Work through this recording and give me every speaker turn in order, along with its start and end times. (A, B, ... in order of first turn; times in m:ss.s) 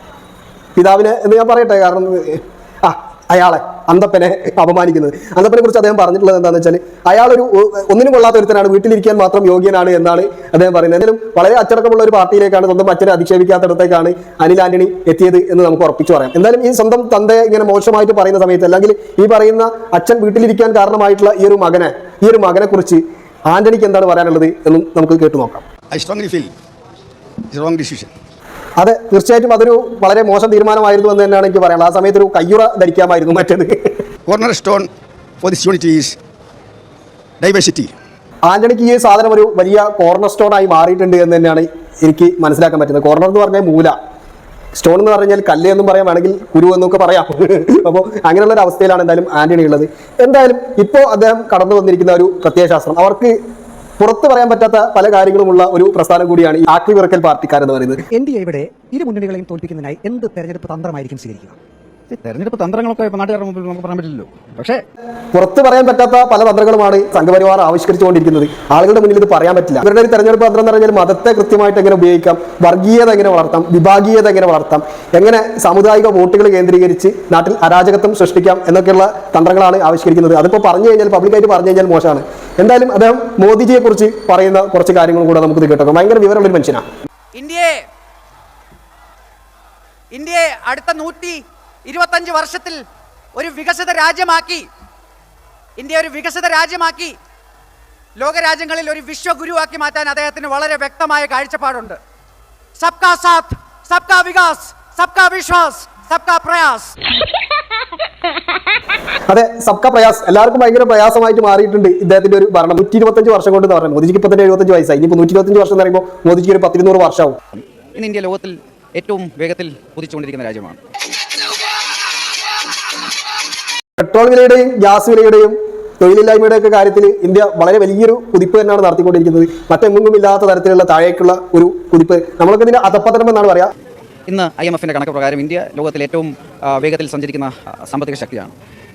0:00.8-0:25.6 A
0:25.9-0:26.5 B
0:27.5-0:28.1 B
0:28.8-0:33.9 A
0:34.3-0:34.9 B
0:35.4-0:36.2 B
0:37.4-0:37.9 B
0:38.4-0:44.0 A
0:44.7-0:53.4 A
0:54.0-0:58.0 A
0:58.1-1:01.6 C
1:02.1-1:04.8 D
1:05.3-1:26.8 A
1:27.3-1:27.8 E
1:30.1-1:32.8 E
1:33.3-1:34.7 E
1:35.8-1:37.2 E
1:38.2-1:42.0 E
1:42.8-1:46.9 E
1:49.3-1:57.4 A
1:57.5-2:00.8 D
2:04.0-2:13.7 A
2:14.3-2:18.5 D